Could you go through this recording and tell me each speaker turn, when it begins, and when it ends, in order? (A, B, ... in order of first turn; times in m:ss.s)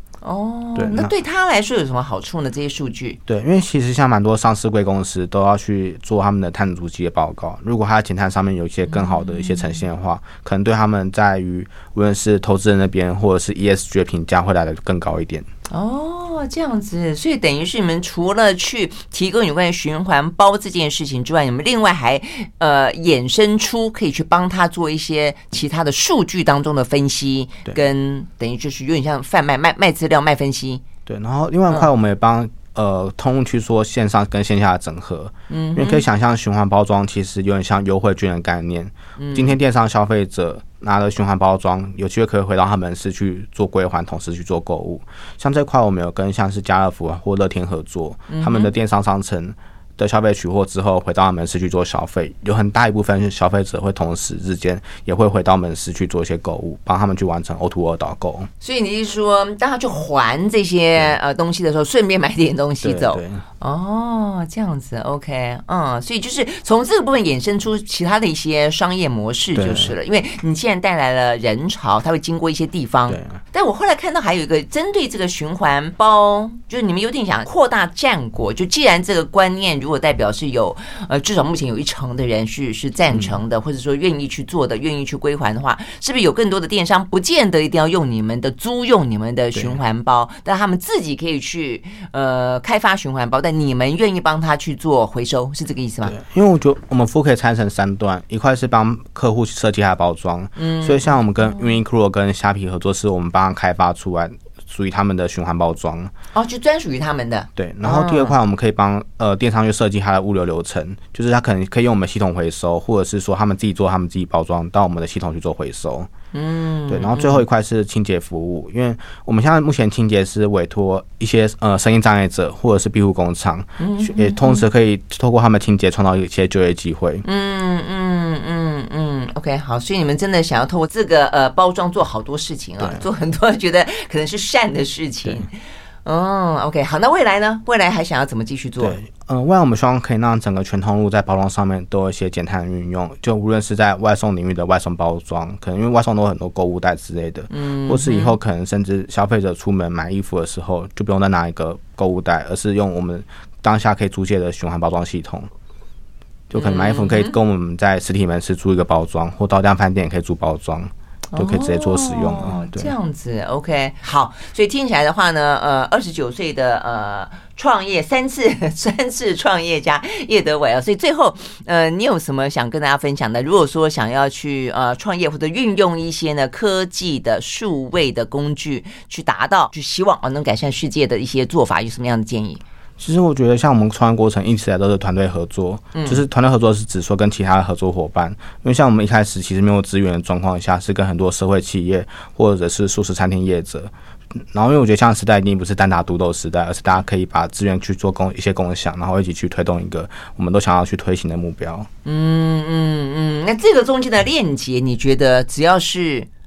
0:00.2-0:03.2 A
0:00.8-0:01.1 B
0:03.3-0:15.4 B
0:08.9-0:09.8 A
0:15.7-0:30.8 A
0:31.0-0:58.5 B
0:35.5-0:36.0 A
0:39.2-0:39.6 A
0:48.3-0:48.7 A
0:58.6-1:36.2 A
1:02.8-1:03.4 B
1:09.6-1:09.9 B
1:13.1-1:13.4 B
1:23.1-1:23.4 B
1:36.0-1:46.1 B
1:40.6-1:41.2 A
1:46.3-1:48.3 A
1:47.6-1:56.1 B
1:56.3-1:57.4 A
1:56.9-2:07.2 B
2:03.8-2:04.6 A
2:07.2-2:15.5 A
2:12.8-2:13.0 B
2:16.0-2:19.0 A
2:18.8-2:35.5 B
2:27.5-2:28.4 A
2:36.5-2:42.9 B
2:36.5-2:37.3 A
2:41.3-3:02.6 A
3:03.0-3:21.9 B
3:05.9-3:06.2 A
3:22.0-3:26.3 A